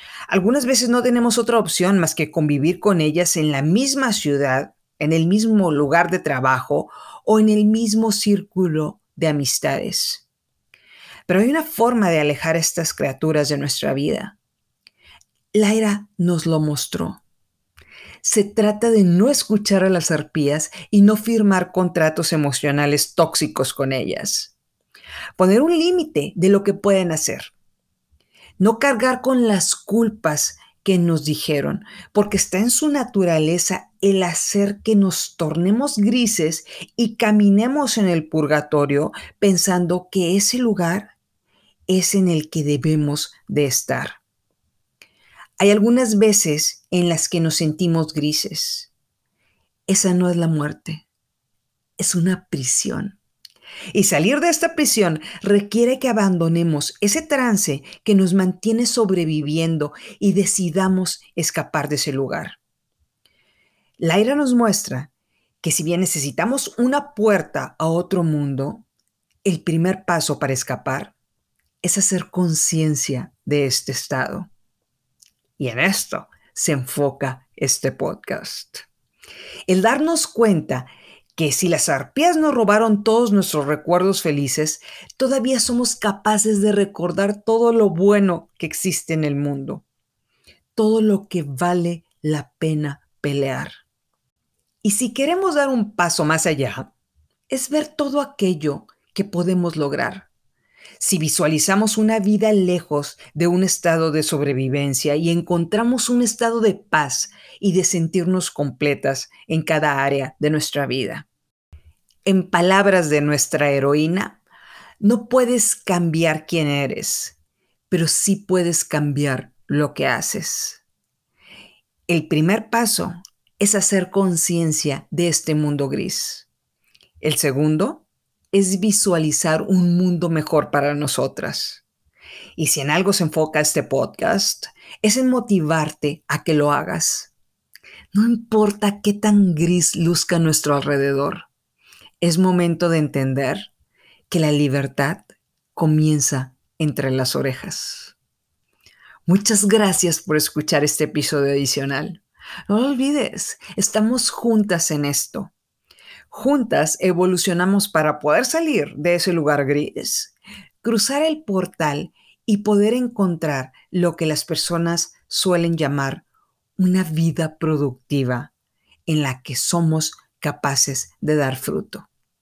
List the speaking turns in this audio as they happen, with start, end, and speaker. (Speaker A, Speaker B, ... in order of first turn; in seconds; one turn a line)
Speaker A: 0.3-10.2
Speaker A: 11.3-14.4
Speaker A: 15.5-17.2
Speaker A: 18.2-24.5
Speaker A: 25.4-27.5
Speaker A: 28.6-41.1
Speaker A: 41.9-44.2
Speaker A: 45.6-48.9
Speaker A: 49.9-51.1
Speaker A: 52.0-53.2
Speaker A: 53.9-62.6
Speaker A: 64.0-65.1
Speaker A: 65.6-68.9
Speaker A: 69.5-71.1
Speaker A: 71.8-74.5
Speaker A: 75.6-78.8
Speaker A: 79.7-89.9
Speaker A: 90.8-93.8
Speaker A: 94.8-96.9
Speaker A: 97.5-100.3
Speaker A: 101.0-111.3
Speaker A: 112.2-114.4
Speaker A: 115.0-117.4
Speaker A: 117.9-120.8
Speaker A: 122.1-126.5
Speaker A: 127.2-131.8
Speaker A: 132.6-137.3
Speaker A: 138.1-141.5
Speaker A: 142.2-143.7
Speaker A: 144.3-148.2
Speaker A: 149.2-155.5
Speaker A: 156.3-166.2
Speaker A: 166.8-168.5
Speaker A: 169.1-172.1